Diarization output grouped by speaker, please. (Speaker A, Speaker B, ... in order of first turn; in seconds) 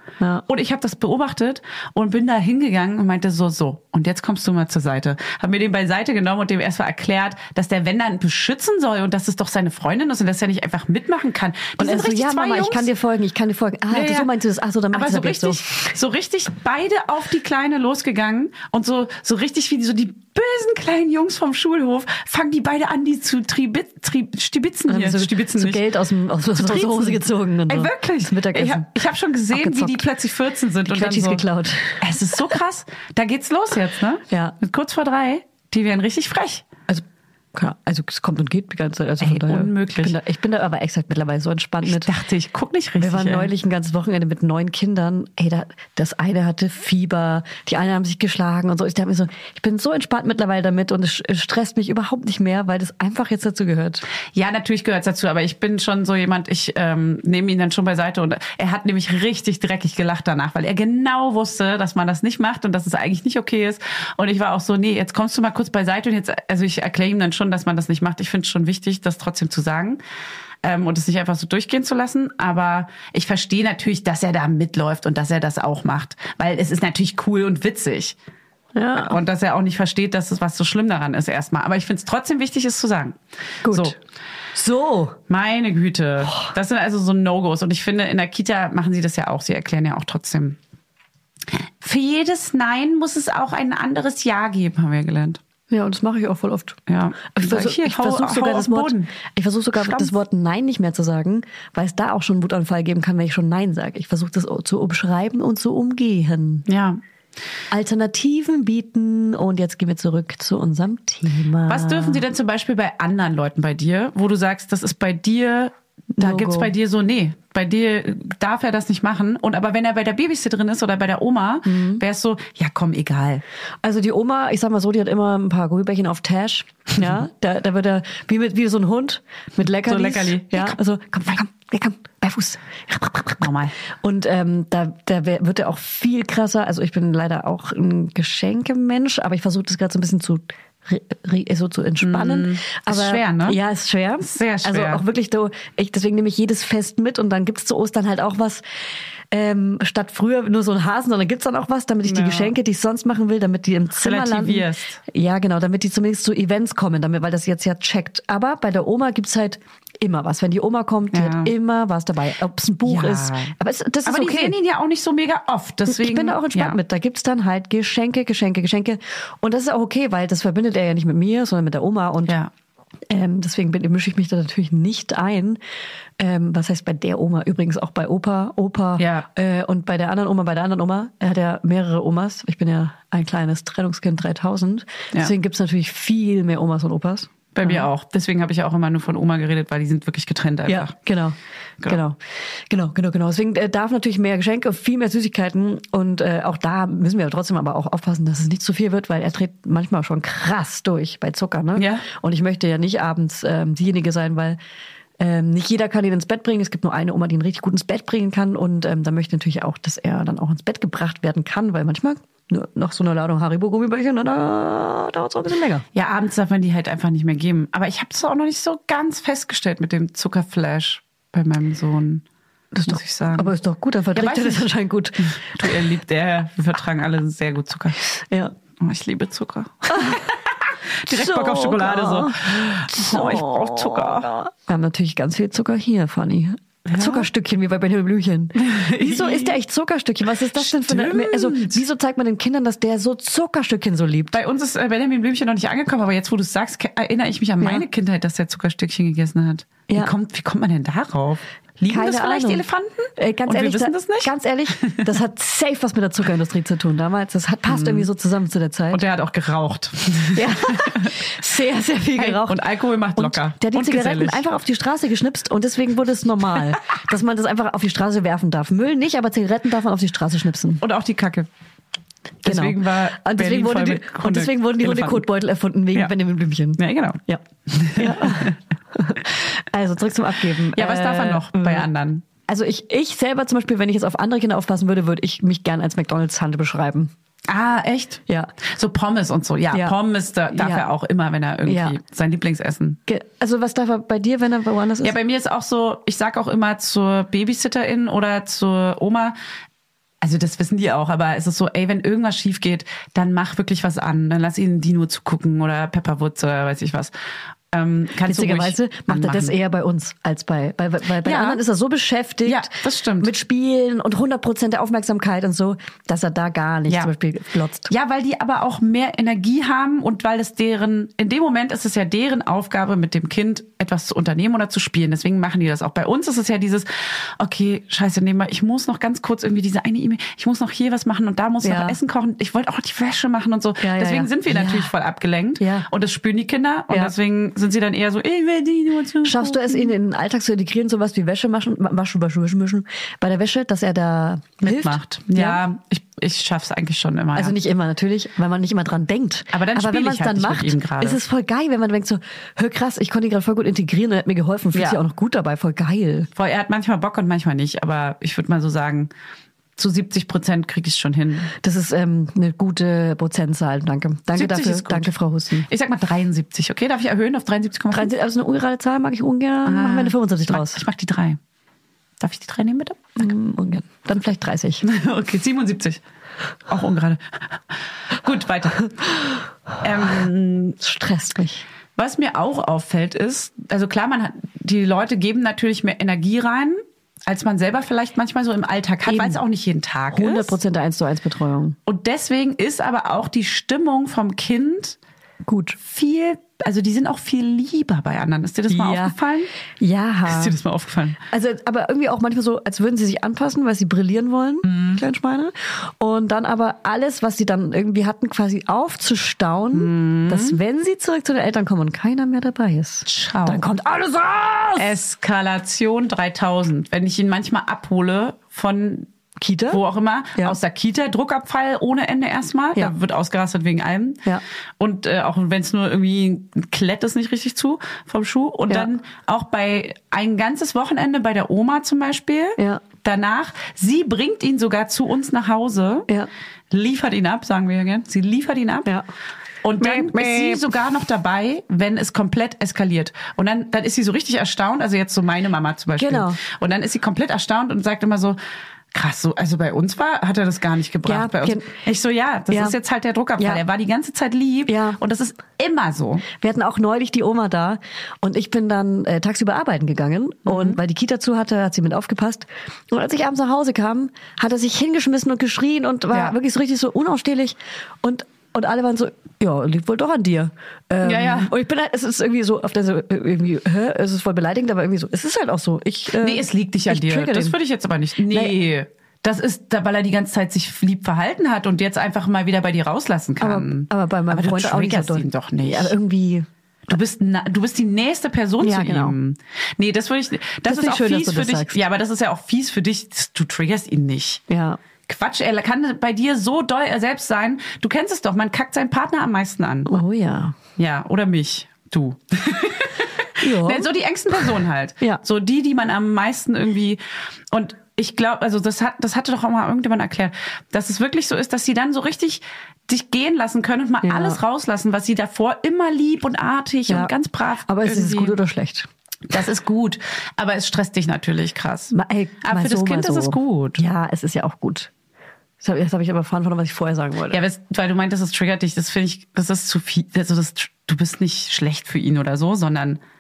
Speaker A: 0.5-12.9, 13.9-14.3, 14.9-25.8, 26.6-31.4, 32.0-36.7, 39.2-40.2, 41.8-43.5, 54.3-70.0, 70.6-78.2, 79.0-84.0, 85.3-90.6, 91.8-95.4, 96.9-99.1, 99.8-100.2, 106.7-107.0, 111.7-123.4, 129.8-130.8, 133.4-133.8, 142.0-143.6, 144.2-145.0, 152.0-152.5, 154.0-155.0, 161.1-161.5, 162.9-166.8, 179.0-179.3, 187.5-190.9, 201.8-202.1, 215.9-222.2, 222.9-223.5, 224.1-224.7, 225.2-228.0, 228.8-234.3, 236.8-237.3, 238.6-239.6, 240.5-241.8, 244.3-255.1, 257.7-258.1, 258.9-261.2, 262.2-264.4, 270.8-271.5, 272.4-275.2, 276.8-278.6, 280.7-282.3, 287.5-293.0, 295.0-299.4, 300.2-307.1, 307.7-309.5, 311.2-311.6, 312.4-313.3, 317.9-339.9, 344.6-347.6, 349.5-351.2, 354.7-355.0, 356.4-359.1, 359.8-361.5, 364.4-368.1, 369.7-371.4, 372.2-373.3, 374.8-376.0, 376.7-377.6, 378.1-379.0, 379.8-380.8, 382.0-390.6, 391.9-395.0, 395.8-399.5, 400.3-401.2, 404.7-405.0, 409.7-410.6, 413.1-413.6, 414.8-419.1, 419.7-424.2, 424.8-436.1, 436.7-438.9, 439.6-448.4, 448.9-456.3, 460.5-460.8, 471.0-471.5, 476.2-485.9, 486.9-494.4, 495.1-499.9, 500.8-507.0, 507.5-518.4, 519.3-523.8, 527.3-533.0
Speaker B: 11.8-15.7, 24.9-29.0, 29.5-30.1, 30.9-32.2, 34.3-34.6, 36.9-42.1, 43.0-54.0, 78.8-79.2, 83.6-84.0, 84.5-85.2, 95.7-96.8, 97.3-106.7, 107.7-112.2, 116.2-116.7, 121.7-122.0, 123.8-148.6, 149.3-164.6, 165.9-172.3, 173.1-175.6, 176.2-187.9, 190.7-204.6, 205.2-215.8, 222.7-225.7, 228.2-228.5, 229.9-230.3, 231.1-244.4, 247.6-247.9, 251.9-252.7, 253.2-259.0, 260.3-262.6, 263.1-270.8, 272.4-277.4, 278.0-281.9, 282.5-287.1, 288.3-288.5, 289.7-290.0, 290.5-290.9, 291.6-292.0, 293.1-295.1, 308.3-317.9, 331.6-332.0, 333.8-334.9, 335.6-335.9, 339.2-345.6, 347.4-356.3, 361.6-365.7, 367.9-370.8, 373.2-374.8, 380.8-381.6, 389.1-389.4, 390.1-391.8, 395.4-395.8, 398.7-399.2, 399.8-400.6, 401.3-414.9, 419.4-419.8, 432.6-432.8, 439.8-440.6, 446.0-446.4, 451.1-451.7, 452.5-452.8, 454.7-455.0, 456.3-477.6, 478.3-478.6, 483.4-486.5, 488.6-489.2, 490.7-491.8, 494.5-494.8, 499.9-500.6, 503.4-504.5, 514.0-514.4, 516.9-517.1, 517.7-518.9, 521.9-524.9, 525.6-527.4